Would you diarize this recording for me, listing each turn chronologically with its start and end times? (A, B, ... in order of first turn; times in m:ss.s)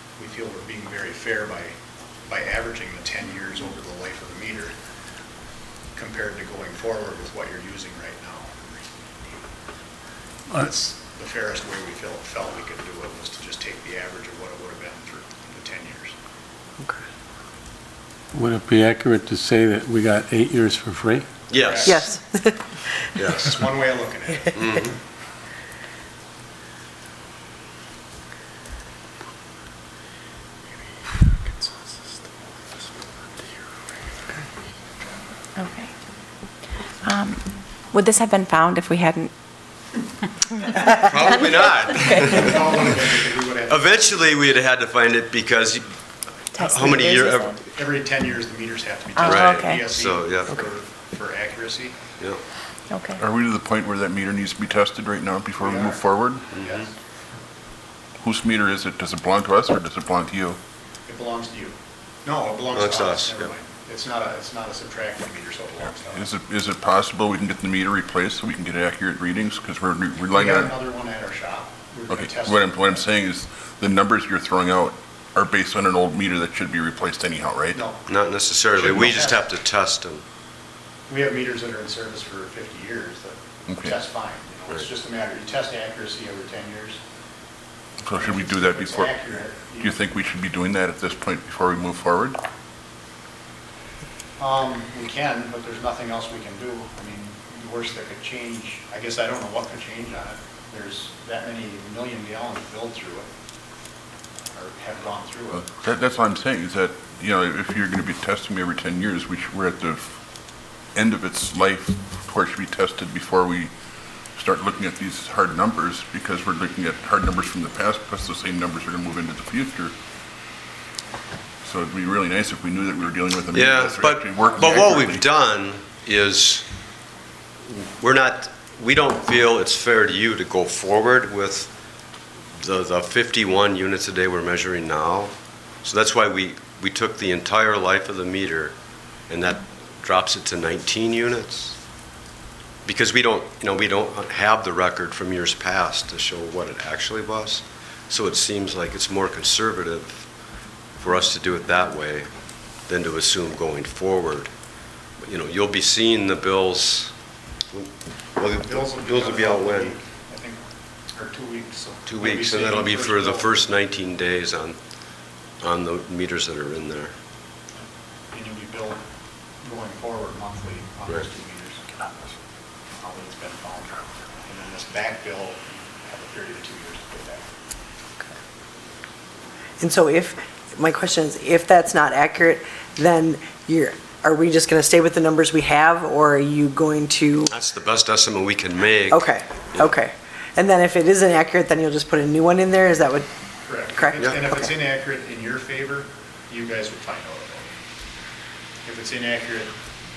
0:00.2-0:01.8 A
0:02.3-0:04.7 A
0:05.9-0:08.8 A
0:10.5-0:16.1 A
0:18.3-0:21.3 B
0:21.5-0:22.1 C
0:21.6-0:22.0 A
0:21.8-0:22.6 D
0:23.2-0:23.6 C
0:23.4-0:24.8 A
0:24.5-0:24.9 C
0:35.6-0:40.0 E
0:40.5-0:41.5 E
0:40.9-0:47.6 C
0:42.2-0:44.3 A
0:46.6-0:47.5 E
0:47.7-0:52.0 A
0:49.2-0:49.8 E
0:49.2-0:50.6 C
0:52.9-0:53.2 E
0:53.2-0:56.5 F
0:55.6-0:56.0 A
0:56.5-0:56.9 C
0:56.6-0:56.9 A
0:58.2-1:00.6 F
1:01.0-1:06.3 A
1:02.7-1:03.5 C
1:06.0-1:10.7 F
1:10.3-1:13.0 A
1:12.1-1:17.8 F
1:17.7-1:18.0 A
1:18.1-1:20.2 C
1:18.7-1:19.4 A
1:21.1-1:27.0 A
1:23.7-1:24.0 F
1:28.0-1:32.4 F
1:28.2-1:30.0 A
1:34.4-1:43.3 A
1:44.5-1:45.6 A
1:45.6-1:50.2 F
1:50.9-1:53.7 F
1:54.3-1:59.9 F
2:01.6-2:05.2 F
2:03.5-2:06.6 C
2:07.7-2:11.7 C
2:12.5-2:21.8 C
2:22.8-2:30.3 C
2:30.9-2:34.5 C
2:35.2-2:37.2 C
2:37.7-2:40.0 C
2:38.6-2:43.6 A
2:42.0-2:45.0 C
2:45.6-2:47.1 C
2:47.7-2:49.0 A
2:49.6-2:52.3 A
2:53.0-2:57.4 A
2:59.8-3:07.5 D
3:07.5-3:09.9 C
3:09.1-3:13.3 D
3:13.6-3:17.7 A
3:13.9-3:14.6 D
3:18.8-3:19.7 A